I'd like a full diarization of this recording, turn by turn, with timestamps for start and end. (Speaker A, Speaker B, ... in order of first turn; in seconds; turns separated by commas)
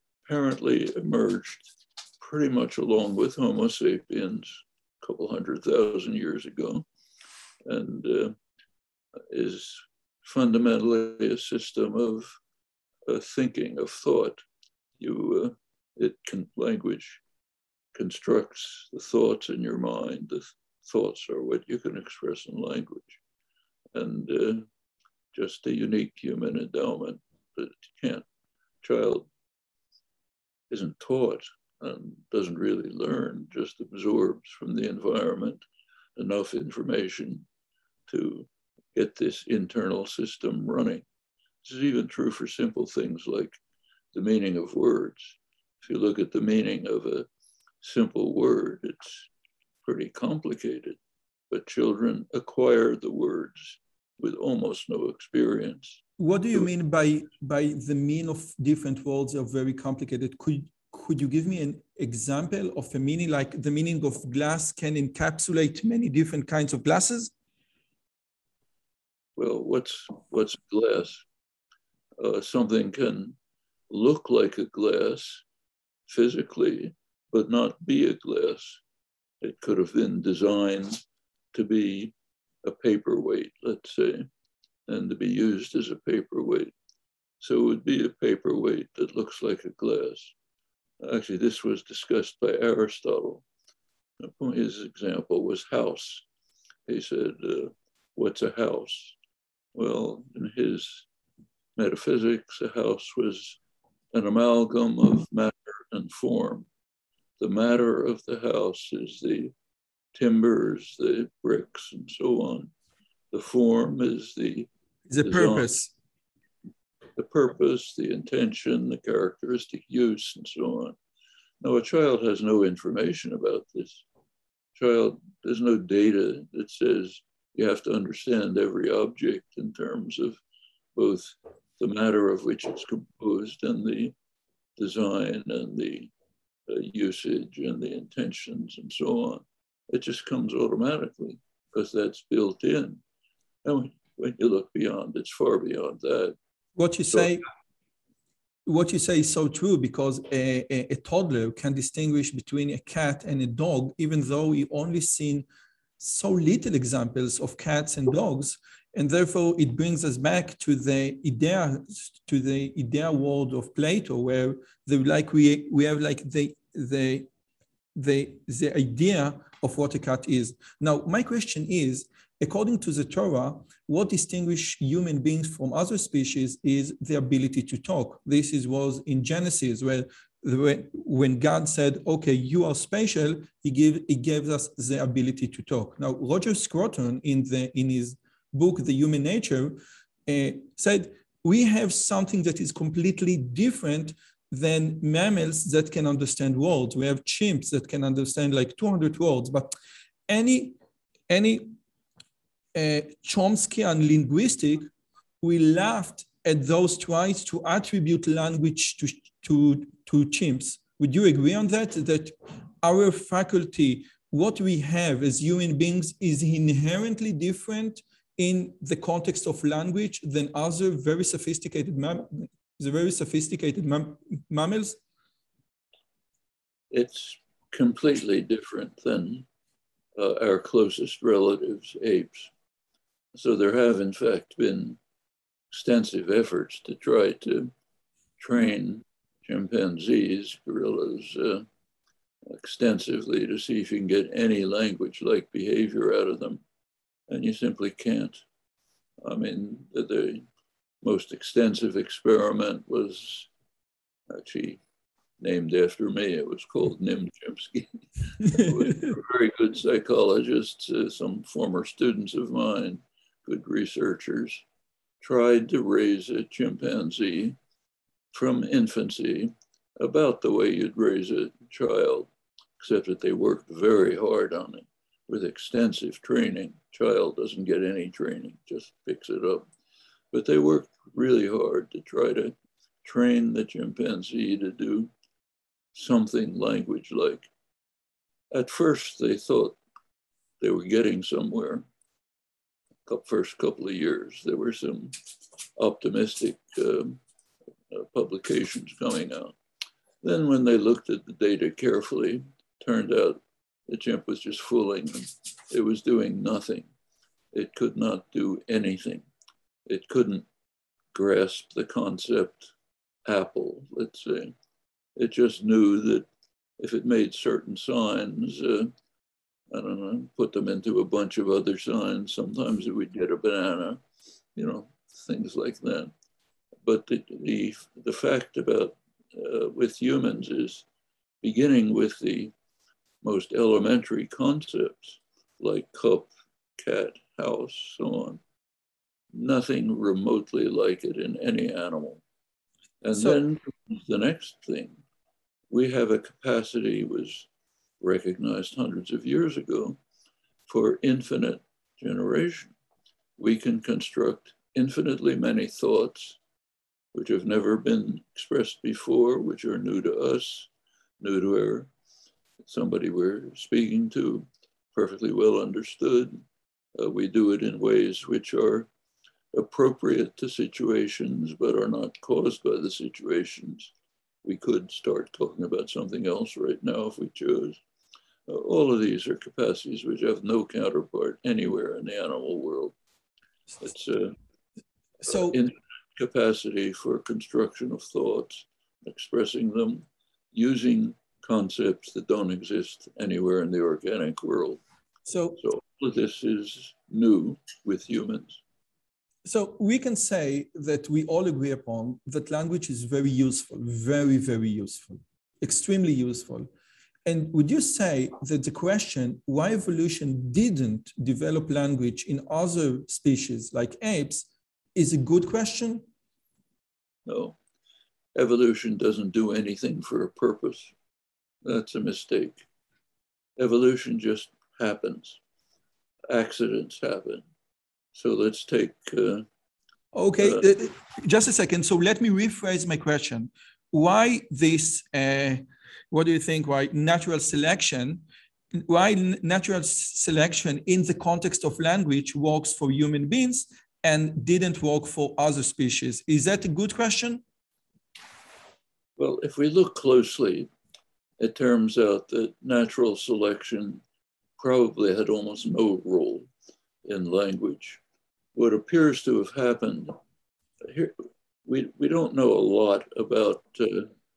Speaker A: 0.3-6.9, Speaker A: 7.7-8.4, Speaker A: 9.3-12.4, Speaker A: 13.1-14.4, Speaker A: 15.0-17.2, Speaker A: 17.9-23.2, Speaker A: 23.9-24.7, Speaker A: 25.3-28.2, Speaker A: 28.8-29.3, Speaker A: 30.7-35.6, Speaker A: 36.2-37.5, Speaker A: 38.1-41.0, Speaker A: 41.6-43.6, Speaker A: 44.1-47.3, Speaker A: 47.8-49.3, Speaker A: 49.9-51.0, Speaker A: 51.5-56.0, Speaker B: 56.2-67.3, Speaker A: 69.4-71.2, Speaker A: 72.2-73.4, Speaker A: 73.9-75.4, Speaker A: 76.1-78.8, Speaker A: 79.4-81.0, Speaker A: 81.5-84.3, Speaker A: 84.9-86.7, Speaker A: 87.4-90.3, Speaker A: 91.0-93.4, Speaker A: 94.2-96.2, Speaker A: 96.9-99.2, Speaker A: 99.8-101.1, Speaker A: 101.8-103.6, Speaker A: 104.1-106.7, Speaker A: 107.4-109.5, Speaker A: 110.2-112.7, Speaker A: 113.3-114.7, Speaker B: 115.1-115.9, Speaker A: 115.2-115.8, Speaker A: 117.2-121.0, Speaker A: 121.6-124.0, Speaker A: 124.8-130.4, Speaker A: 130.9-134.2, Speaker A: 134.8-136.1, Speaker A: 136.7-143.0, Speaker A: 143.7-146.3, Speaker B: 146.8-147.4, Speaker A: 147.1-147.4, Speaker B: 148.7-155.5, Speaker B: 156.0-167.3, Speaker B: 167.9-199.7, Speaker B: 200.3-200.8, Speaker B: 201.3-201.7, Speaker B: 202.7-204.9, Speaker B: 205.4-225.0, Speaker A: 226.9-229.5, Speaker A: 230.2-232.5, Speaker A: 233.3-235.0, Speaker A: 235.7-237.7, Speaker A: 238.4-241.7, Speaker A: 242.5-246.6, Speaker A: 247.3-248.4, Speaker A: 249.2-250.4, Speaker A: 251.0-253.5, Speaker A: 254.3-254.8, Speaker A: 255.4-264.6, Speaker A: 265.2-267.6, Speaker A: 268.3-279.7, Speaker A: 280.3-285.1, Speaker A: 285.9-287.5, Speaker A: 288.5-289.8, Speaker A: 290.6-291.9, Speaker A: 293.1-295.1, Speaker A: 295.8-297.2, Speaker A: 297.9-299.6, Speaker A: 300.2-306.9, Speaker A: 307.5-309.3, Speaker A: 309.9-310.5, Speaker A: 311.1-312.7, Speaker A: 313.3-314.5, Speaker A: 315.2-316.3, Speaker A: 316.8-318.9, Speaker A: 319.7-324.0, Speaker A: 324.6-326.1, Speaker A: 326.8-330.9, Speaker A: 331.4-332.5, Speaker A: 333.2-338.4, Speaker A: 339.3-342.2, Speaker A: 343.0-345.0, Speaker B: 343.1-343.4, Speaker A: 345.7-347.5, Speaker A: 348.0-350.0, Speaker A: 350.7-352.7, Speaker A: 353.4-356.4, Speaker A: 357.1-360.7, Speaker A: 361.2-361.9, Speaker A: 362.6-366.4, Speaker A: 367.0-368.9, Speaker A: 369.5-373.9, Speaker A: 374.4-377.8, Speaker A: 378.5-382.9, Speaker A: 383.8-384.4, Speaker B: 385.2-385.6, Speaker A: 385.3-394.8, Speaker B: 395.3-395.6, Speaker A: 395.6-398.6, Speaker B: 399.4-406.7, Speaker B: 407.2-416.1, Speaker A: 417.3-417.6, Speaker A: 418.4-420.9, Speaker A: 421.6-422.6, Speaker A: 423.6-425.4, Speaker A: 426.3-427.4, Speaker A: 428.1-429.4, Speaker B: 430.1-438.2, Speaker A: 430.4-430.7, Speaker B: 438.7-447.4, Speaker A: 449.2-450.7, Speaker A: 451.4-454.0, Speaker A: 454.6-456.5, Speaker A: 457.1-458.0, Speaker A: 458.6-460.1, Speaker A: 460.8-464.1